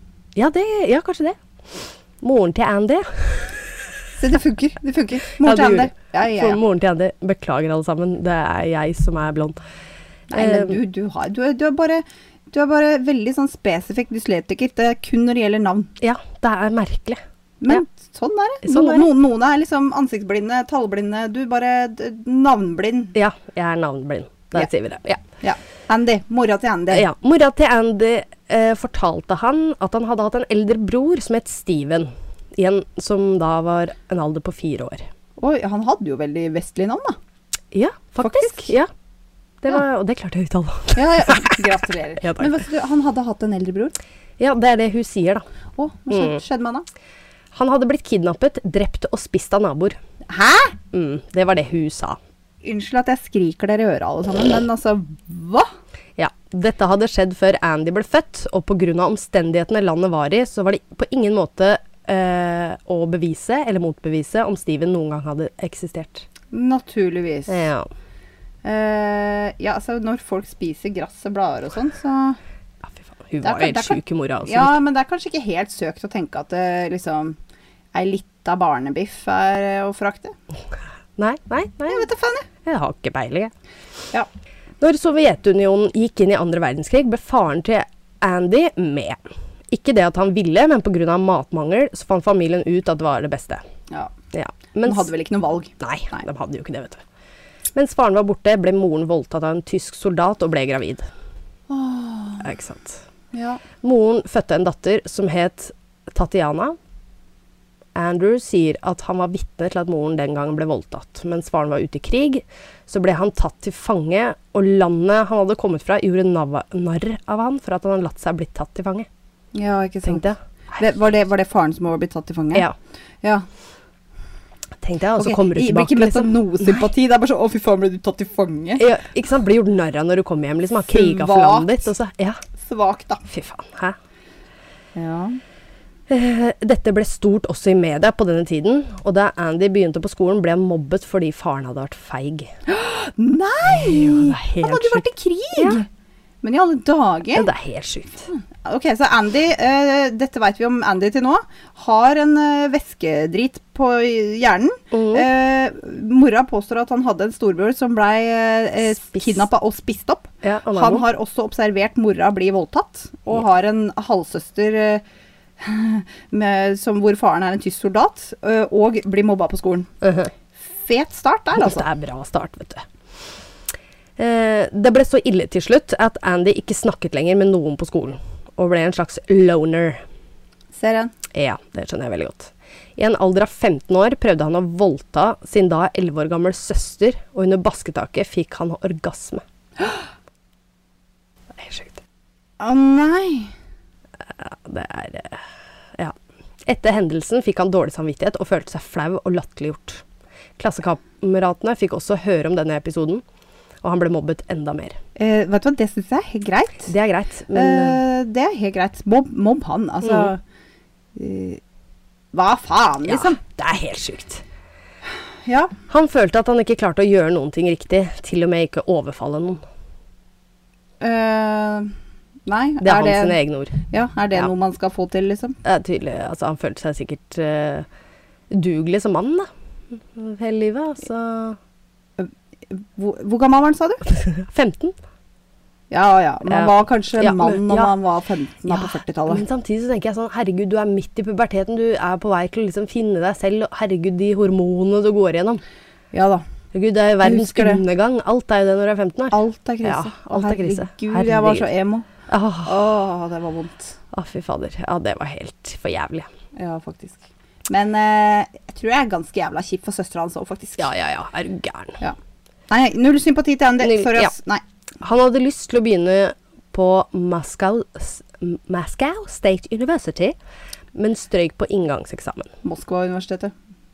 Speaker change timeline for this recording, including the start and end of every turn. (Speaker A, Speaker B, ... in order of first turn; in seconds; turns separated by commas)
Speaker A: 0.3-3.8, Speaker B: 4.2-6.6, Speaker A: 5.3-9.6, Speaker B: 10.3-15.9, Speaker A: 10.3-10.8, Speaker A: 16.0-17.8, Speaker B: 17.6-23.1, Speaker A: 18.6-19.1, Speaker A: 23.1-25.2, Speaker B: 25.4-27.1, Speaker A: 26.9-35.1, Speaker B: 35.4-37.2, Speaker A: 37.7-38.9, Speaker B: 38.2-38.7, Speaker A: 39.6-42.5, Speaker B: 40.9-43.9, Speaker A: 44.4-45.5, Speaker B: 45.8-46.9, Speaker A: 46.1-46.4, Speaker A: 47.5-50.0, Speaker B: 50.3-50.8, Speaker A: 50.9-52.2, Speaker B: 52.6-55.7, Speaker A: 56.2-66.2, Speaker B: 66.5-67.7, Speaker A: 67.5-67.9, Speaker B: 68.6-72.4, Speaker A: 73.0-74.8, Speaker B: 73.4-77.4, Speaker B: 77.9-80.3, Speaker A: 81.2-82.1, Speaker B: 81.9-82.5, Speaker A: 82.6-83.5, Speaker A: 84.8-89.2, Speaker A: 89.7-93.6, Speaker A: 94.3-95.1, Speaker B: 94.8-96.2, Speaker A: 95.8-97.0, Speaker A: 97.8-101.1, Speaker B: 101.7-102.4, Speaker A: 102.4-103.0, Speaker B: 103.3-103.6, Speaker A: 103.8-106.8, Speaker A: 107.9-119.1, Speaker B: 119.5-122.7, Speaker A: 120.0-120.4, Speaker A: 124.8-126.8, Speaker B: 125.2-128.8, Speaker A: 128.8-132.4, Speaker B: 130.9-131.9, Speaker B: 132.6-133.2, Speaker A: 133.3-133.9, Speaker B: 134.9-135.4, Speaker A: 136.1-142.5, Speaker B: 142.7-145.9, Speaker A: 143.6-145.0, Speaker A: 145.6-145.8, Speaker B: 146.4-147.5, Speaker A: 147.3-148.3, Speaker B: 148.3-165.0, Speaker A: 154.9-155.2, Speaker A: 160.4-161.0, Speaker B: 165.6-169.9, Speaker A: 170.0-170.3, Speaker B: 170.7-171.8, Speaker A: 171.6-172.8, Speaker A: 174.2-180.0, Speaker B: 180.7-181.1, Speaker A: 181.3-189.4, Speaker A: 191.6-192.0, Speaker B: 192.6-193.5, Speaker A: 194.3-195.4, Speaker A: 196.7-200.0, Speaker A: 200.6-203.2, Speaker A: 203.8-205.0, Speaker B: 205.2-206.9, Speaker A: 206.9-208.0, Speaker B: 207.5-210.4, Speaker B: 211.1-211.6, Speaker B: 212.3-213.4, Speaker A: 213.0-214.4, Speaker B: 215.4-215.7, Speaker A: 215.9-219.6, Speaker B: 221.0-221.9, Speaker B: 222.4-225.6, Speaker A: 222.8-223.8, Speaker A: 225.6-227.9, Speaker A: 228.5-231.6, Speaker B: 232.2-234.0, Speaker A: 234.1-234.9, Speaker B: 235.9-239.4, Speaker A: 236.5-237.9, Speaker A: 238.7-245.6, Speaker B: 246.1-246.4, Speaker A: 246.7-251.7, Speaker B: 247.2-247.8, Speaker B: 249.3-252.1, Speaker A: 252.3-252.8, Speaker B: 252.7-253.9, Speaker A: 254.1-256.3, Speaker B: 256.5-260.9, Speaker A: 260.8-262.0, Speaker B: 262.7-264.6, Speaker A: 263.8-264.3, Speaker A: 265.0-270.4, Speaker A: 270.9-272.5, Speaker B: 272.6-273.5